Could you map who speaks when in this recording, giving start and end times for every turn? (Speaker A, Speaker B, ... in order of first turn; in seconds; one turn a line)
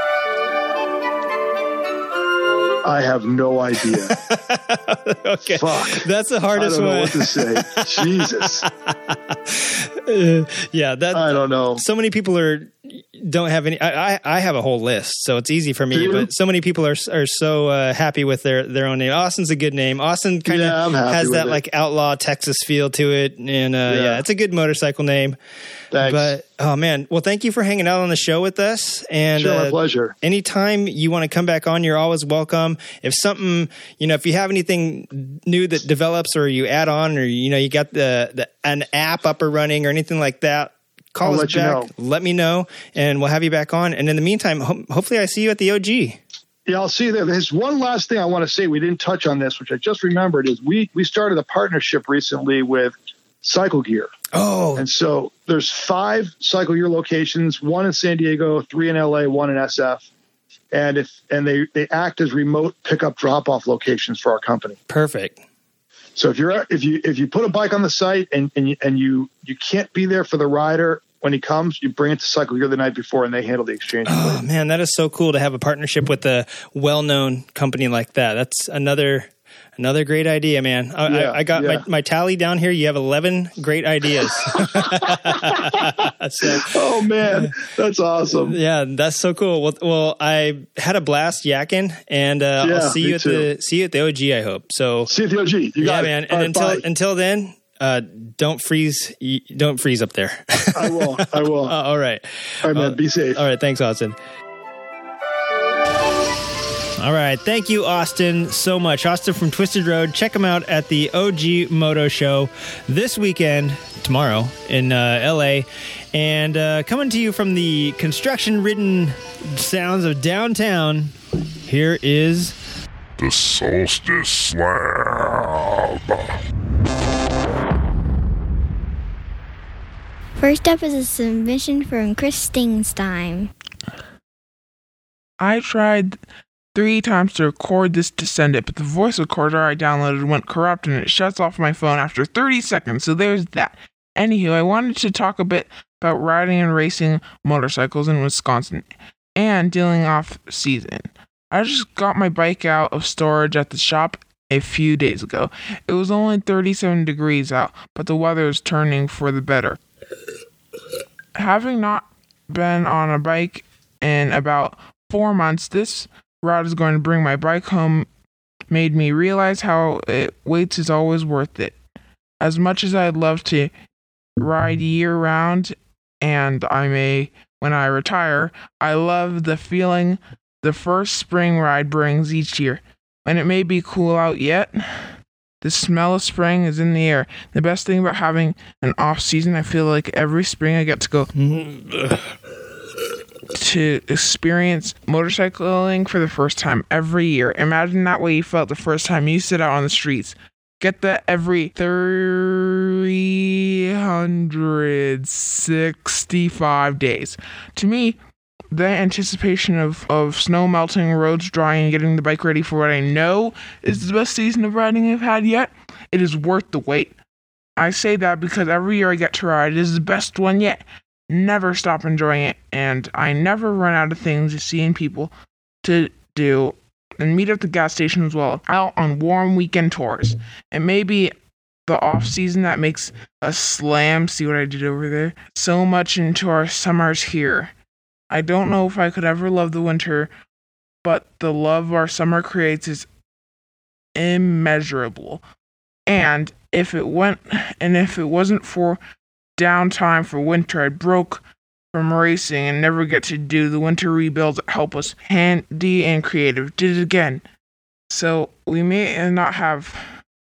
Speaker A: 2.8-4.1
Speaker B: 4.1-25.4
Speaker A: 5.6-8.7
Speaker A: 11.1-11.8
Speaker A: 15.9-16.3
Speaker A: 20.4-21.6
Speaker A: 23.9-24.2
Speaker A: 25.9-26.3
Speaker B: 26.0-46.2
Speaker A: 29.4-30.1
Speaker A: 41.2-41.9
Speaker A: 46.6-54.1
Speaker B: 54.3-54.8
Speaker A: 54.8-60.1
Speaker A: 60.7-64.8
Speaker B: 64.9-65.4
Speaker A: 66.2-74.4
Speaker B: 74.0-87.5
Speaker A: 81.1-81.8
Speaker A: 84.5-88.6
Speaker B: 88.3-95.1
Speaker A: 92.6-93.5
Speaker A: 95.1-96.8
Speaker B: 95.8-104.2
Speaker A: 100.7-101.8
Speaker A: 102.6-103.4
Speaker B: 107.0-121.1
Speaker B: 121.7-122.5
Speaker C: 123.2-126.4
Speaker D: 130.4-133.5
Speaker E: 135.4-136.2
Speaker E: 136.7-159.8
Speaker E: 161.3-168.1
Speaker E: 168.7-171.7
Speaker E: 172.4-173.7
Speaker E: 174.4-191.3
Speaker B: 191.3-192.2
Speaker E: 193.5-208.2
Speaker E: 208.7-217.1
Speaker E: 217.8-225.3
Speaker E: 225.8-231.3
Speaker E: 231.8-237.7
Speaker E: 238.3-240.3
Speaker E: 241.0-243.1
Speaker E: 244.1-245.4
Speaker E: 246.1-249.0
Speaker E: 249.6-257.4
Speaker E: 258.1-260.2